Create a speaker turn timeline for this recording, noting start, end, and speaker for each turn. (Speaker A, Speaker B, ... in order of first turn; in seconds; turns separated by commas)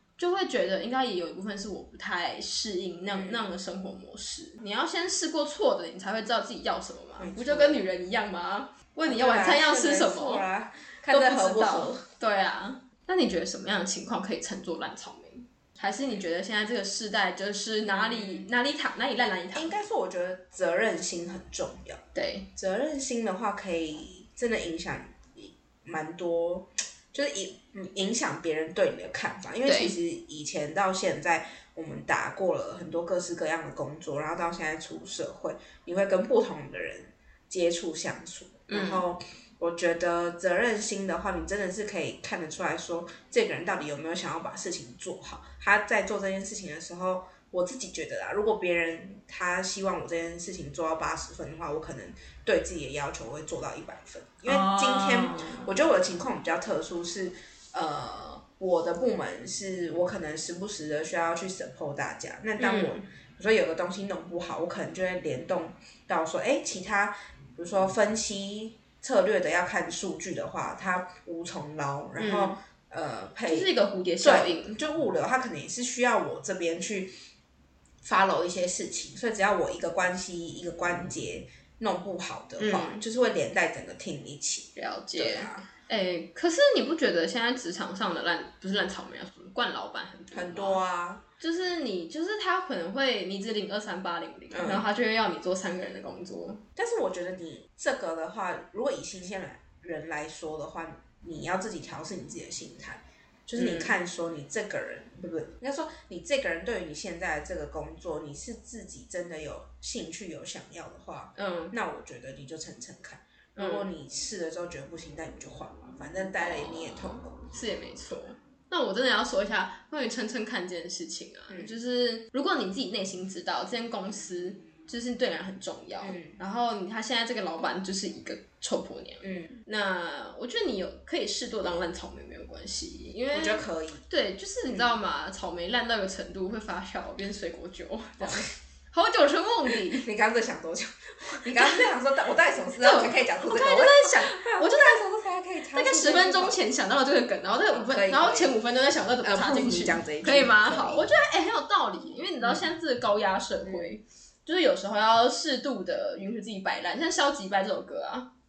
Speaker A: 0.2-10.4, Speaker B: 3.1-3.5, Speaker B: 7.2-7.8, Speaker B: 9.1-12.0, Speaker A: 11.1-19.7, Speaker B: 17.9-18.5, Speaker B: 19.5-22.0, Speaker A: 22.1-22.5, Speaker B: 22.5-73.7, Speaker A: 29.6-29.9, Speaker A: 38.7-39.0, Speaker A: 54.5-55.7, Speaker A: 62.6-63.0, Speaker A: 72.2-72.5, Speaker A: 73.5-74.8, Speaker B: 74.2-77.1, Speaker B: 78.0-85.7, Speaker A: 82.6-83.0, Speaker A: 84.8-90.8, Speaker B: 90.3-91.2, Speaker A: 91.4-96.6, Speaker B: 94.5-94.8, Speaker B: 96.8-117.5, Speaker A: 103.5-103.9, Speaker A: 111.4-111.7, Speaker A: 113.6-113.8, Speaker A: 117.5-140.1, Speaker B: 126.0-126.4, Speaker B: 129.2-129.6, Speaker B: 133.3-134.0, Speaker B: 139.9-146.6, Speaker A: 141.5-141.9, Speaker A: 142.8-145.0, Speaker A: 145.7-158.3, Speaker B: 147.7-148.6, Speaker B: 149.2-151.1